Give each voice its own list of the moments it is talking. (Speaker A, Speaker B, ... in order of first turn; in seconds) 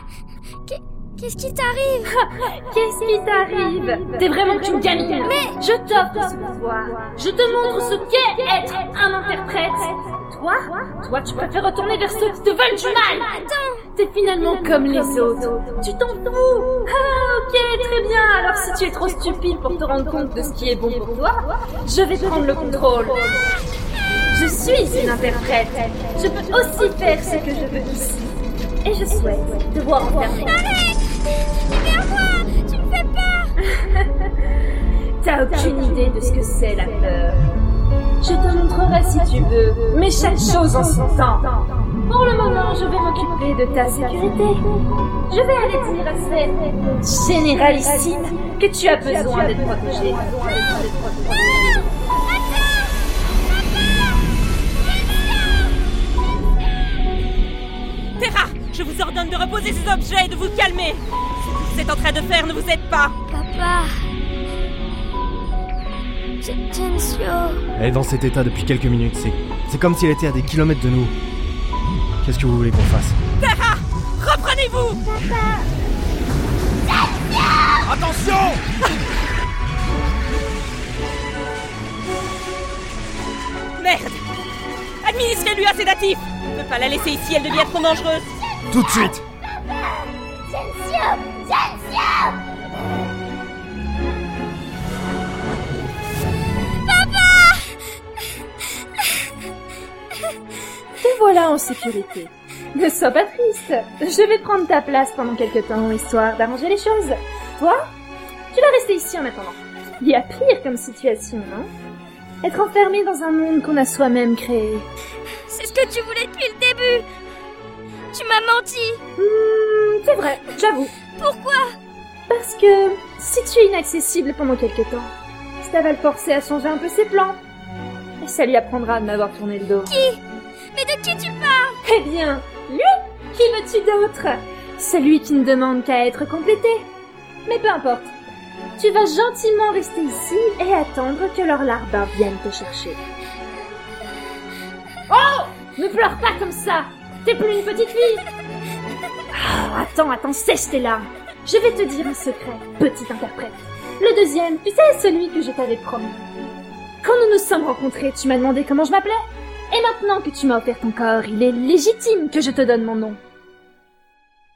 Speaker A: 0.7-2.1, 5.2-5.6, 13.2-13.8, 30.4-31.0, 31.5-33.5, 63.3-64.1, 66.4-67.7, 90.5-91.2, 96.8-97.8, 115.5-117.1, 118.1-119.0, 121.2-121.7, 129.8-130.2, 130.7-131.8
Speaker B: 2.1-13.3, 13.9-23.4, 24.3-28.3, 28.8-30.5, 33.8-34.3, 35.2-37.4, 38.2-44.6, 45.3-51.5, 101.0-107.9, 108.5-111.7, 112.4-114.9, 119.2-120.9, 122.3-127.4, 128.2-129.9, 131.8-136.9, 137.5-138.2, 138.8-143.0, 145.1-148.3, 149.3-156.2, 157.0-163.2
Speaker C: 58.2-63.1, 73.4-75.0, 77.9-78.6, 83.8-84.2, 85.0-88.3
Speaker D: 67.8-71.2, 72.2-73.2, 88.7-89.2